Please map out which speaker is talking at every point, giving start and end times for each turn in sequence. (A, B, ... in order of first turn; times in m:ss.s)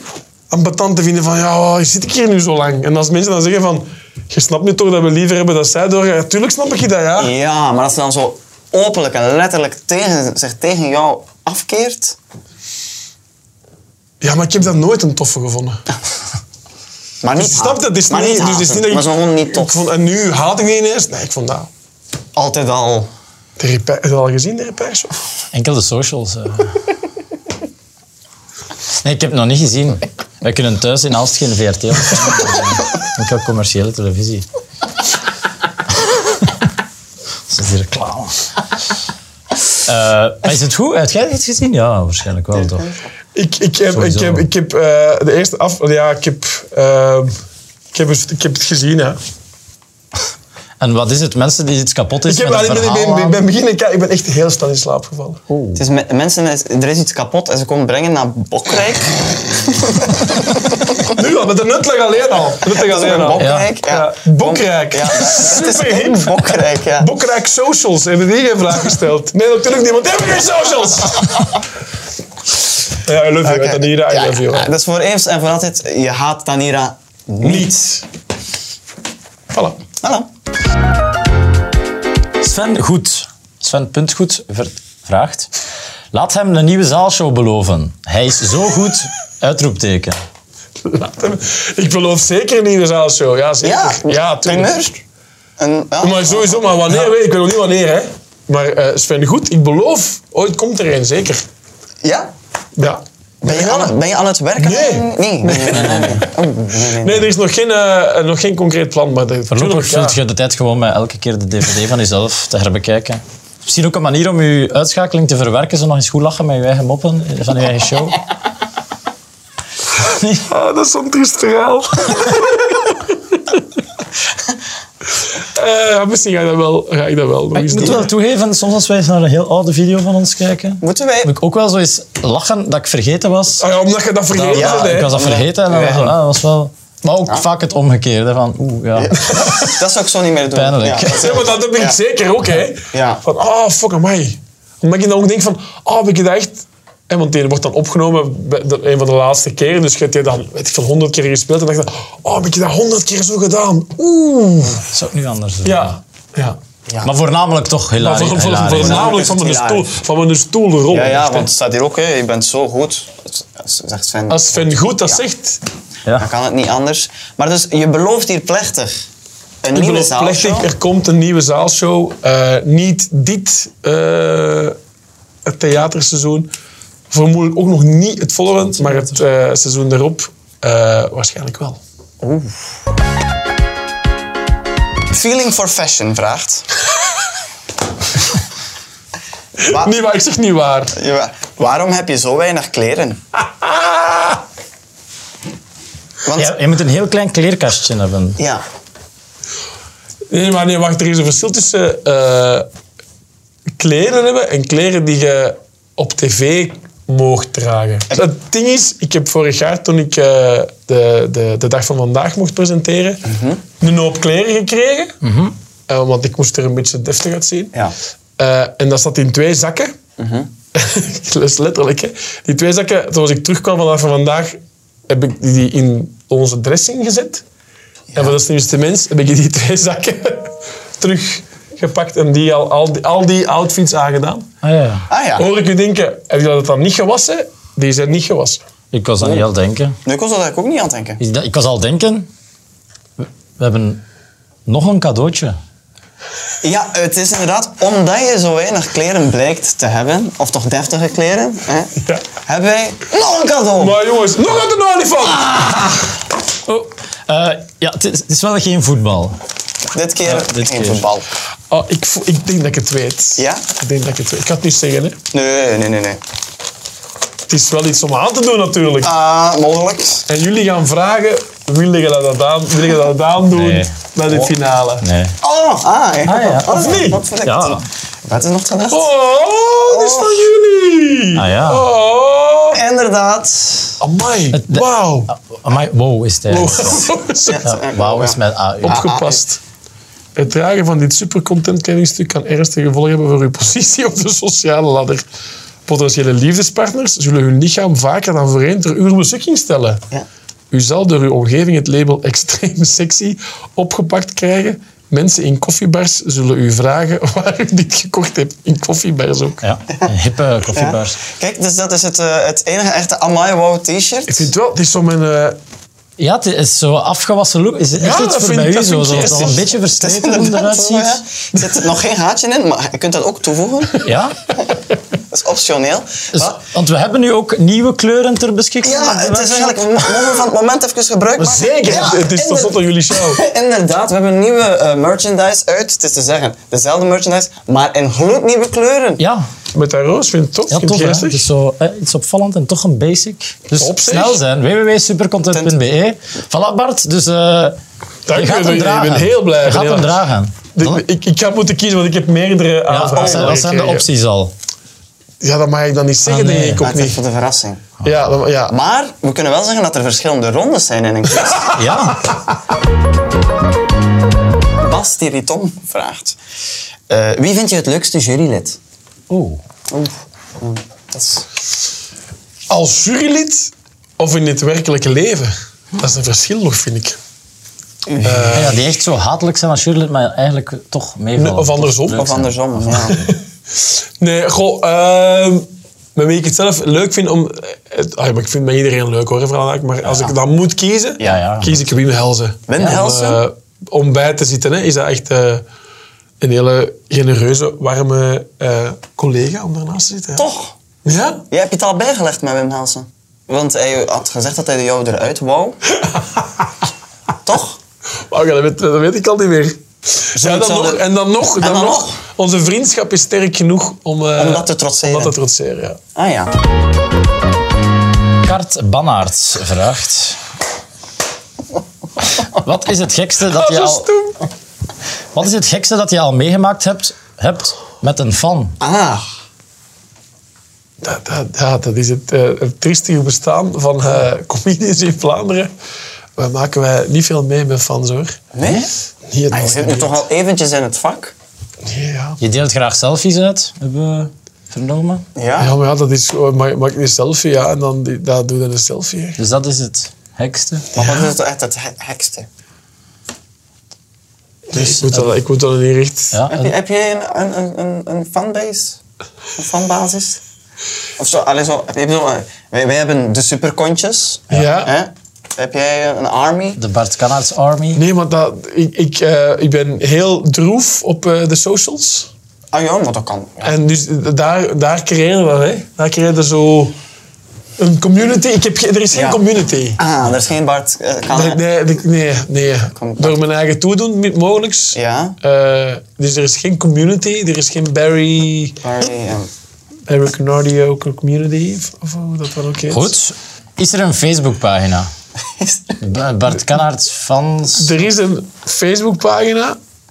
0:00.5-0:07.3 A
0:07.2-0:12.2 B
0:14.2-0:15.8 A
0:17.2-0:19.7 B
0:17.4-0:21.7 A
0:22.3-0:23.1 B
0:23.6-0:25.2 A
0:25.5-0:26.7 C
0:29.0-0:34.4 C
0:37.5-0:38.4 C
0:39.8-0:42.9 C
0:43.3-0:47.3 A
0:43.9-0:44.4 C
0:47.9-0:49.2 A
0:50.8-0:53.4 C
0:52.3-0:55.4 A
0:55.5-0:55.8 C
0:55.7-1:01.1 B
1:01.1-1:11.6 A
1:02.6-1:07.1 B
1:03.4-1:03.7 C
1:13.0-1:14.7 A
1:13.4-1:17.8 B
1:17.4-1:18.0 A
1:19.5-1:19.8 A
1:20.0-1:20.3 B
1:22.4-1:25.5 C
1:26.1-1:30.2 C
1:30.8-1:34.7 A
1:33.6-1:35.0 B
1:35.6-1:36.8 B
1:36.0-1:41.4 A
1:42.0-1:42.3 B
1:42.8-1:43.9 A
1:43.4-1:47.3 B
1:44.6-1:46.3 A
1:47.0-1:50.2 A
1:49.5-1:58.2 C
2:00.0-2:00.4 C
2:00.4-2:03.1 A
2:05.4-2:08.1 A
2:07.5-2:13.6 C
2:10.8-2:11.3 B
2:13.6-2:15.1 A
2:14.3-2:19.1 C
2:14.4-2:16.2 B
2:18.9-2:22.0 B
2:19.3-2:19.8 A
2:20.5-2:21.3 C
2:21.1-2:34.9 A
2:22.9-2:23.2 B
2:34.9-2:36.0 C
2:35.6-2:36.6 A
2:37.0-2:39.1 C
2:38.0-2:41.5 A
2:38.8-2:39.9 B
2:40.9-2:45.2 B
2:44.3-2:45.6 A
2:46.2-2:49.0 B
2:49.6-2:50.7 B
2:49.7-2:54.8 A
2:55.4-2:56.5 A
2:57.1-3:01.8 A
3:02.2-3:02.6 B
3:05.1-3:06.6 B
3:09.6-3:11.0 A
3:09.7-3:09.9 B
3:10.9-3:13.2 B
3:13.6-3:14.4 A
3:16.2-3:16.6 B
3:16.3-3:18.4 C
3:18.4-3:18.6 B
3:20.3-3:22.7 A
3:23.8-3:33.3 A
3:33.2-3:33.6 B
3:33.8-3:35.2 A
3:35.2-3:35.5 C
3:35.9-3:37.7 A
3:38.4-3:39.9 A
3:40.2-3:40.5 B
3:40.7-3:47.4 A
3:48.1-3:54.5 A
3:54.6-3:55.0 C
3:55.1-3:55.5 B
3:55.4-3:58.6 A
3:58.9-4:00.0 C
4:00.0-4:01.2 B
4:01.2-4:02.3 C
4:03.6-4:04.0 C
4:04.7-4:05.6 C
4:06.6-4:14.0 B
4:13.8-4:16.0 A
4:16.7-4:19.4 C
4:19.9-4:21.3 B
4:20.2-4:21.0 C
4:21.7-4:25.2 A
4:23.4-4:23.6 B
4:25.3-4:26.2 B
4:27.5-4:29.1 A
4:29.0-4:30.2 B
4:30.3-4:35.0 A
4:33.5-4:33.9 C
4:35.0-4:35.3 C
4:35.4-4:39.1 B
4:36.2-4:36.8 C
4:36.6-4:37.2 A
4:37.4-4:37.8 C
4:38.9-4:42.8 A
4:39.8-4:40.5 B
4:41.3-4:41.8 C
4:42.7-4:44.0 B
4:44.0-4:45.3 A
4:44.5-4:47.0 C
4:46.5-4:47.6 A
4:47.4-4:49.4 B
4:47.6-4:49.1 C
4:48.8-4:49.6 A
4:50.4-4:55.2 A
4:55.9-5:00.0 A
5:00.7-5:09.6 A
5:09.6-5:11.2 C
5:10.7-5:14.5 B
5:14.3-5:15.6 A
5:16.2-5:21.2 C
5:18.0-5:19.6 A
5:19.1-5:24.0 B
5:24.0-5:24.4 C
5:25.2-5:26.6 B
5:26.3-5:30.1 C
5:28.8-5:39.2 B
5:31.4-5:33.4 A
5:39.2-5:39.4 C
5:39.7-5:41.5 A
5:40.7-5:47.8 C
5:43.8-5:44.4 A
5:45.5-5:45.8 B
5:48.3-5:50.2 A
5:48.3-5:51.0 C
5:50.7-5:54.1 A
5:52.9-5:54.5 C
5:55.4-5:57.2 A
5:56.2-5:56.8 C
5:56.8-5:57.9 B
5:58.0-5:58.7 A
5:58.7-6:01.8 B
6:01.7-6:02.3 C
6:04.8-6:06.4 B
6:07.1-6:08.8 B
6:09.3-6:09.6 C
6:09.9-6:11.4 B
6:12.7-6:17.2 A
6:18.0-6:18.8 B
6:18.2-6:18.8 A
6:18.5-6:23.1 C
6:21.4-6:22.3 A
6:22.1-6:23.2 B
6:22.9-6:35.6 A
6:31.2-6:31.8 C
6:32.7-6:33.4 B
6:32.8-6:33.0 C
6:36.4-6:40.5 A
6:40.4-6:40.7 B
6:41.0-6:41.4 A
6:41.5-6:45.8 B
6:46.0-6:46.4 A
6:47.4-6:47.8 B
6:48.3-6:56.0 A
6:50.3-6:51.0 B
6:51.6-6:52.2 B
6:54.4-6:55.3 B
6:56.1-6:56.6 B
6:58.4-7:00.4 C
7:02.3-7:04.1 C
7:03.5-7:04.4 A
7:05.3-7:08.8 C
7:08.8-7:09.2 B
7:11.0-7:15.7 A
7:16.4-7:18.4 A
7:18.5-7:18.9 B
7:19.3-7:20.2 A
7:19.5-7:21.3 B
7:21.8-7:22.4 A
7:22.4-7:25.2 C
7:25.4-7:25.8 B
7:25.6-7:29.4 A
7:29.4-7:30.9 C
7:30.9-7:32.5 B
7:34.7-7:36.4 A
7:34.7-7:35.3 C
7:36.3-7:36.7 C
7:36.5-7:39.0 B
7:39.6-7:40.4 B
7:41.2-7:46.8 B
7:44.5-7:44.9 A
7:46.8-7:48.0 C
7:48.0-7:52.3 A
7:52.7-7:53.8 B
7:53.6-7:56.9 A
7:57.8-8:00.0 A
7:59.1-7:59.4 B
8:00.0-8:01.6 B
8:01.3-8:08.8 A
8:02.9-8:03.4 B
8:04.9-8:05.4 B
8:08.8-8:09.5 B
8:10.1-8:13.1 A
8:12.9-8:15.1 C
8:15.5-8:16.0 B
8:16.0-8:17.9 C
8:17.8-8:19.8 A